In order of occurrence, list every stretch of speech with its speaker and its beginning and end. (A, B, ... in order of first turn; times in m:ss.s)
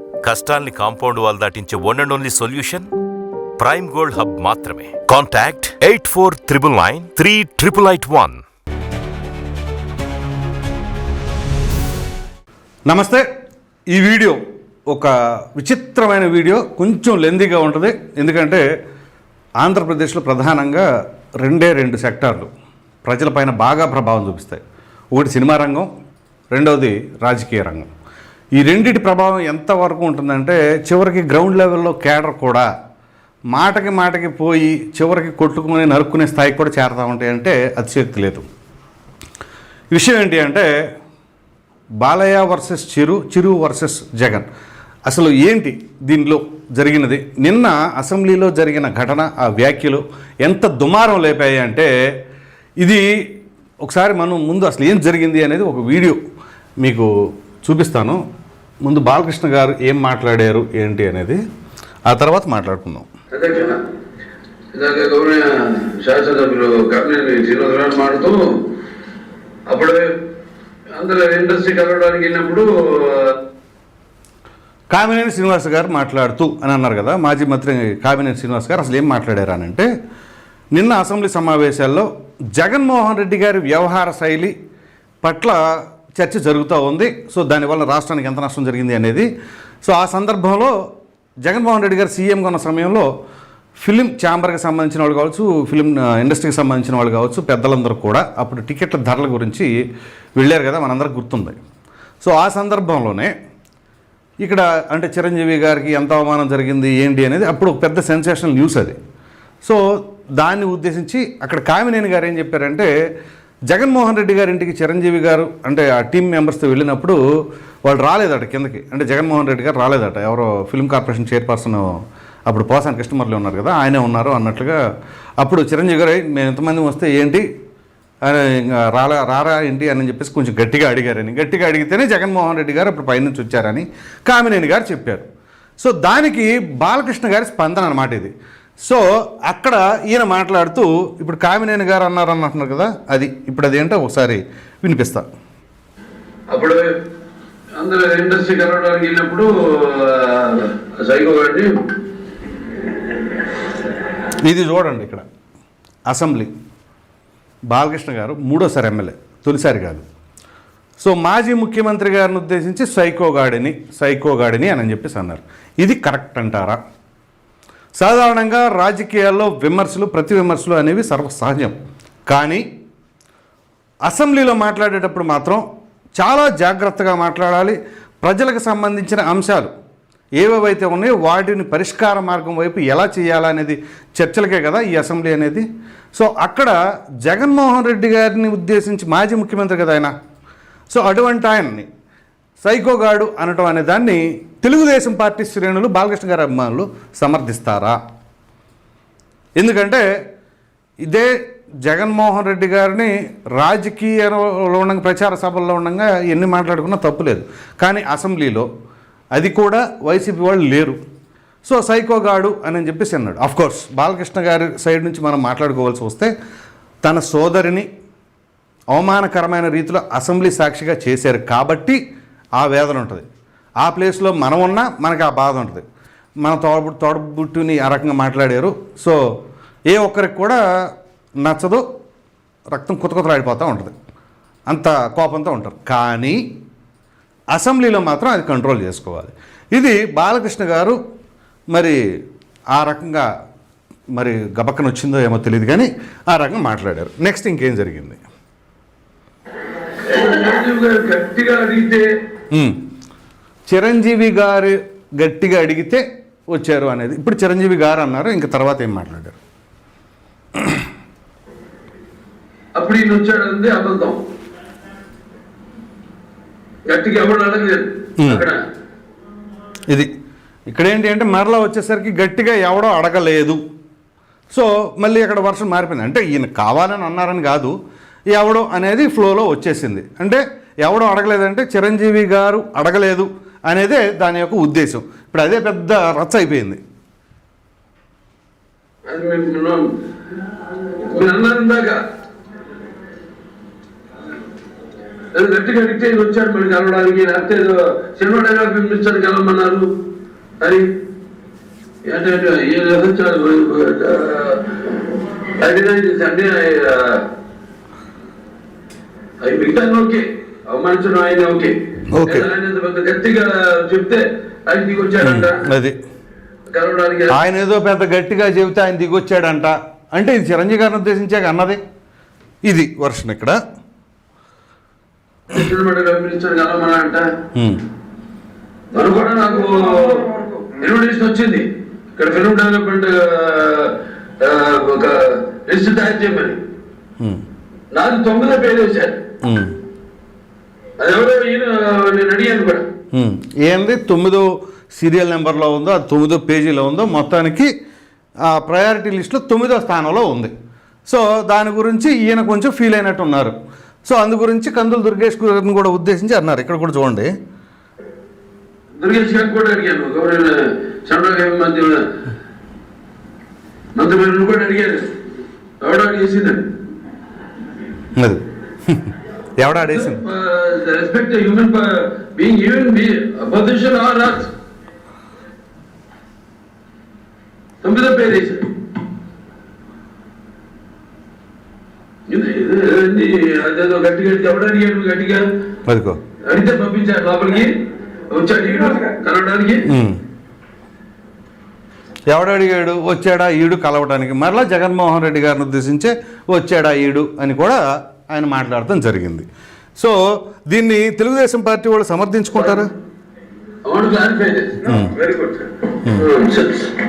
0:00.2-0:02.9 A
0:03.6-0:08.4 A
0:12.9-0:13.3 B
0:13.9-0:18.6 B
0:19.6-0:20.9 B
0:21.4-0:22.5 B
0:23.0-0:24.6 B
0:25.1-0:25.9 B
0:26.5-0:27.9 B
0:28.6-0:32.7 B
0:33.5-0:38.4 B
0:39.9-0:40.7 B
0:42.0-0:44.5 B
0:45.1-0:51.9 B
0:53.8-0:56.2 B
0:56.8-0:57.1 B
0:57.6-0:58.2 B
0:58.8-1:01.4 B
1:02.1-1:03.1 B
1:03.3-1:03.8 C
1:04.7-1:08.4 C
1:09.7-1:10.1 C
1:10.9-1:13.4 C
1:14.9-1:19.9 B
1:20.7-1:24.5 B
1:25.2-1:25.6 B
1:26.2-1:29.3 B
1:29.8-1:30.7 B
1:31.4-1:33.1 B
1:33.8-1:39.7 B
1:40.4-1:41.6 B
1:42.2-1:43.3 B
1:44.4-1:49.0 B
1:50.4-1:52.9 B
1:53.7-1:57.2 B
1:57.8-2:04.8 B
2:05.4-2:07.4 B
2:08.2-2:15.3 B
2:15.8-2:18.3 B
2:18.8-2:25.3 B
2:26.5-2:26.9 C
2:27.8-2:31.8 C
2:34.4-2:35.3 B
2:36.1-2:36.5 B
2:37.7-2:40.0 B
2:41.0-2:46.8 B
2:48.0-2:51.8 B
2:52.3-2:52.6 B
2:54.1-2:55.6 B
2:56.2-2:59.7 B
3:00.4-3:10.1 B
3:10.9-3:11.9 B
3:12.6-3:18.0 B
3:19.6-3:20.0 B
3:21.0-3:21.3 B
3:21.8-3:28.7 B
3:29.4-3:31.0 B
3:31.6-3:36.3 B
3:37.0-3:37.9 B
3:38.9-3:42.0 B
3:42.6-3:43.2 B
3:43.8-3:45.8 B
3:46.4-3:49.2 B
3:49.9-3:50.6 B
3:51.4-3:51.8 B
3:52.7-3:53.9 B
3:54.7-3:56.4 B
3:57.5-4:01.0 B
4:01.7-4:02.0 B
4:02.7-4:03.3 B
4:04.2-4:08.2 B
4:10.0-4:12.1 C
4:12.5-4:12.8 B
4:13.7-4:19.4 B
4:22.8-4:24.2 C
4:26.9-4:28.6 C
4:28.2-4:28.4 B
4:30.7-4:33.6 B
4:34.5-4:37.8 B
4:38.3-4:46.8 B
4:49.1-4:49.9 C
4:50.9-4:52.0 C
4:55.3-4:59.9 C
5:00.6-5:00.9 C
5:02.0-5:07.3 C
5:09.4-5:15.7 C
5:12.1-5:12.5 B
5:15.2-5:16.0 B
5:16.7-5:17.4 C
5:17.3-5:21.8 B
5:22.7-5:23.6 B
5:25.5-5:27.3 C
5:27.6-5:27.8 B
5:28.9-5:36.6 C
5:37.9-5:39.2 C
5:39.4-5:39.8 B
5:41.0-5:42.9 C
5:43.1-5:47.7 B
5:48.4-5:50.5 B
5:51.1-5:57.3 B
5:59.0-6:02.1 C
6:04.0-6:05.2 C
6:05.8-6:06.7 C
6:08.2-6:10.2 B
6:09.9-6:14.5 C
6:17.8-6:18.8 C
6:22.3-6:25.5 C
6:25.9-6:26.2 B
6:26.4-6:29.9 C
6:29.9-6:30.2 B
6:32.3-6:39.4 B
6:40.0-6:42.9 B
6:43.8-6:47.0 C
6:44.8-6:45.2 B